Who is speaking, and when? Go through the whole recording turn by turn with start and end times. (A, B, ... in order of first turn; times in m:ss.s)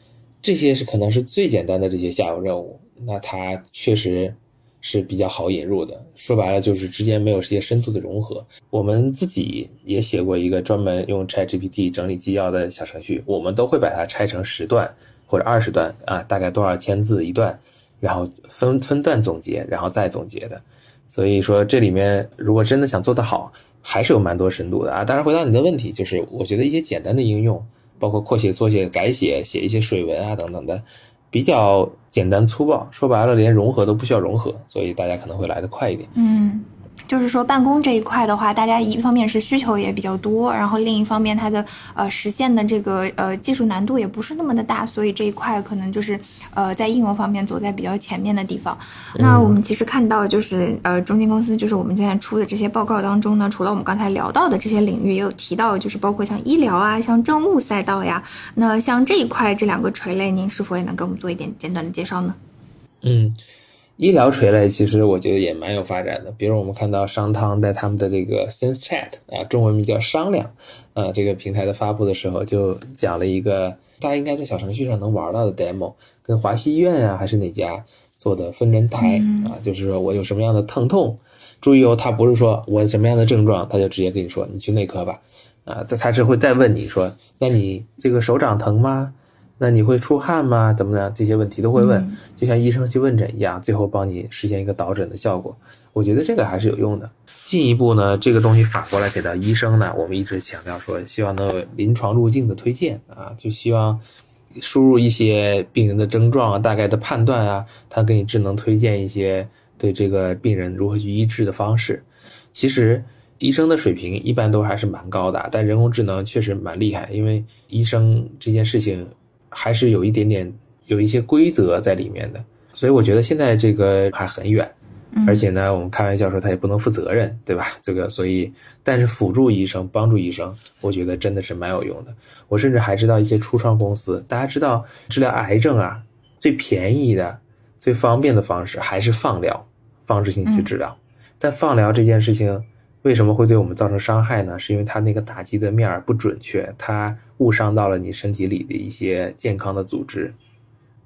0:00.4-0:36.1 A
0:36.1-1:02.4 B
0:49.2-0:49.6 A
1:03.0-1:03.4 A
1:04.0-1:44.0 A
1:19.0-1:19.5 B
1:31.7-1:32.2 B
1:44.6-2:04.7 A
2:05.1-2:05.4 B
2:05.2-2:30.4 A
2:20.4-2:20.7 B